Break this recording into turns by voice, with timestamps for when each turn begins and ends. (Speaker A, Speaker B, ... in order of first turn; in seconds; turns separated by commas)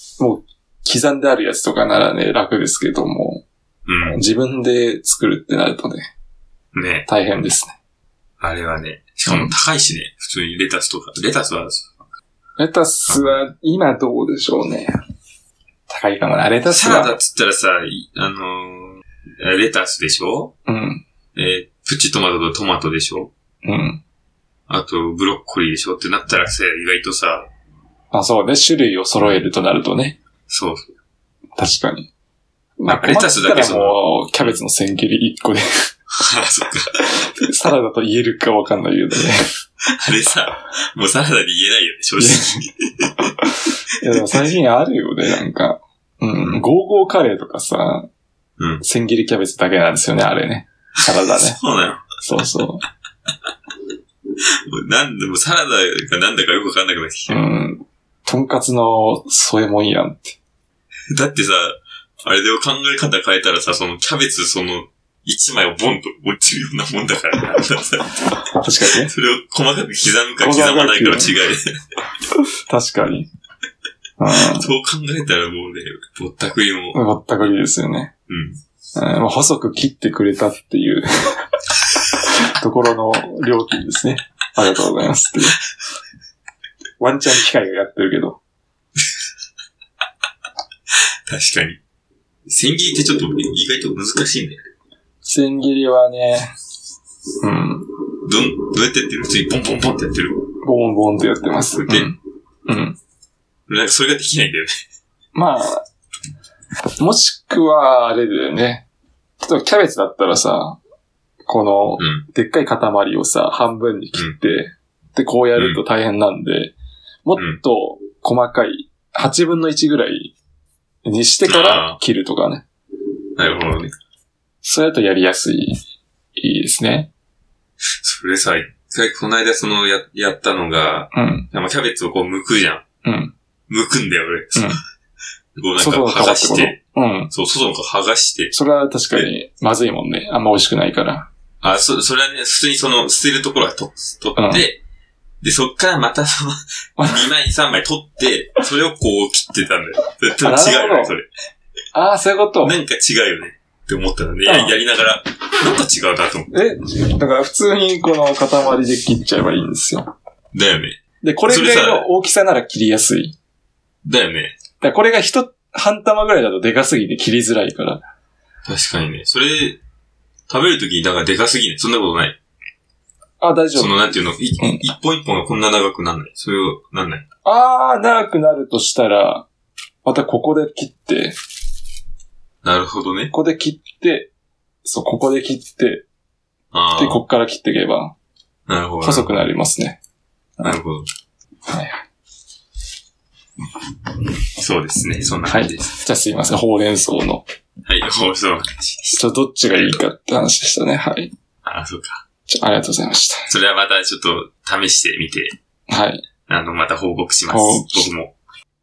Speaker A: 0.2-3.4, Speaker B: 3.9-4.2, Speaker A: 4.1-6.1, Speaker B: 6.7-7.1, Speaker A: 7.1-7.8, Speaker B: 8.4-11.9, Speaker A: 9.3-9.6, Speaker A: 12.6-14.9, Speaker B: 13.1-13.4, Speaker A: 15.9-17.2, Speaker B: 16.6-20.5, Speaker A: 20.7-21.0, Speaker B: 21.4-23.3, Speaker A: 23.6-24.0, Speaker B: 24.7-27.5, Speaker A: 28.1-30.2, Speaker B: 30.5-30.9, Speaker A: 31.6-32.1, Speaker A: 32.8-35.6, Speaker B: 32.9-34.6, Speaker B: 36.2-37.0, Speaker A: 37.0-39.5, Speaker B: 40.0-43.1, Speaker A: 42.2-42.7, Speaker A: 44.0-48.1, Speaker B: 48.6-48.8, Speaker A: 48.8-51.6, Speaker B: 51.5-52.0, Speaker A: 52.2-52.8, Speaker B: 54.7-57.4, Speaker A: 57.3-60.4, Speaker B: 61.1-68.3, Speaker A: 68.5-69.1, Speaker B: 69.0-71.6, Speaker A: 70.4-71.3, Speaker A: 72.4-73.3, Speaker A: 74.2-74.7, Speaker B: 74.4-77.0, Speaker A: 76.9-78.1, Speaker B: 78.3-78.6, Speaker A: 79.0-81.5, Speaker A: 82.2-85.6, Speaker A: 87.0-88.4, Speaker B: 91.3-91.8, Speaker B: 92.5-94.6, Speaker A: 95.2-96.5, Speaker A: 97.4-97.9, Speaker B: 98.2-100.4, Speaker A: 100.6-103.0, Speaker B: 101.7-102.1, Speaker B: 103.7-104.8, Speaker A: 105.3-105.8, Speaker A: 107.0-108.8, Speaker A: 109.4-110.8, Speaker A: 111.5-116.7, Speaker B: 112.0-112.2, Speaker B: 115.5-115.8, Speaker A: 117.2-120.3, Speaker A: 121.0-122.7, Speaker B: 121.5-122.0, Speaker B: 123.4-123.9, Speaker A: 124.6-125.8, Speaker A: 126.4-127.1, Speaker B: 128.0-132.8, Speaker A: 131.1-131.5, Speaker A: 133.0-133.3, Speaker B: 133.7-134.8, Speaker A: 134.6-134.8, Speaker B: 135.6-136.8, Speaker A: 135.8-137.3, Speaker B: 137.3-138.5, Speaker A: 138.5-141.3, Speaker B: 141.6-144.8, Speaker A: 144.4-144.7, Speaker B: 145.4-151.3, Speaker A: 147.0-147.3, Speaker A: 150.4-151.1, Speaker A: 151.9-152.8, Speaker B: 152.6-156.5, Speaker A: 154.4-154.8, Speaker A: 156.5-160.1, Speaker B: 160.5-162.1, Speaker A: 161.2-163.4, Speaker B: 164.1-164.5, Speaker A: 164.8-168.0, Speaker B: 168.7-169.8, Speaker B: 170.5-172.4, Speaker A: 173.4-174.8, Speaker B: 173.8-177.2, Speaker A: 177.4-179.5, Speaker A: 180.0-181.3, Speaker B: 182.6-183.3, Speaker A: 183.3-184.3, Speaker A: 184.8-186.1, Speaker B: 186.7-187.2, Speaker A: 186.9-188.1, Speaker B: 188.7-189.4, Speaker A: 189.0-190.0, Speaker B: 190.6-191.1, Speaker A: 191.7-192.0, Speaker B: 194.6-195.9, Speaker A: 195.4-197.4, Speaker B: 197.9-199.2, Speaker A: 199.1-201.3, Speaker B: 199.7-200.0, Speaker B: 201.7-202.2, Speaker A: 202.5-203.5, Speaker B: 203.5-205.6, Speaker A: 205.9-206.2, Speaker B: 206.5-208.3, Speaker A: 207.5-208.1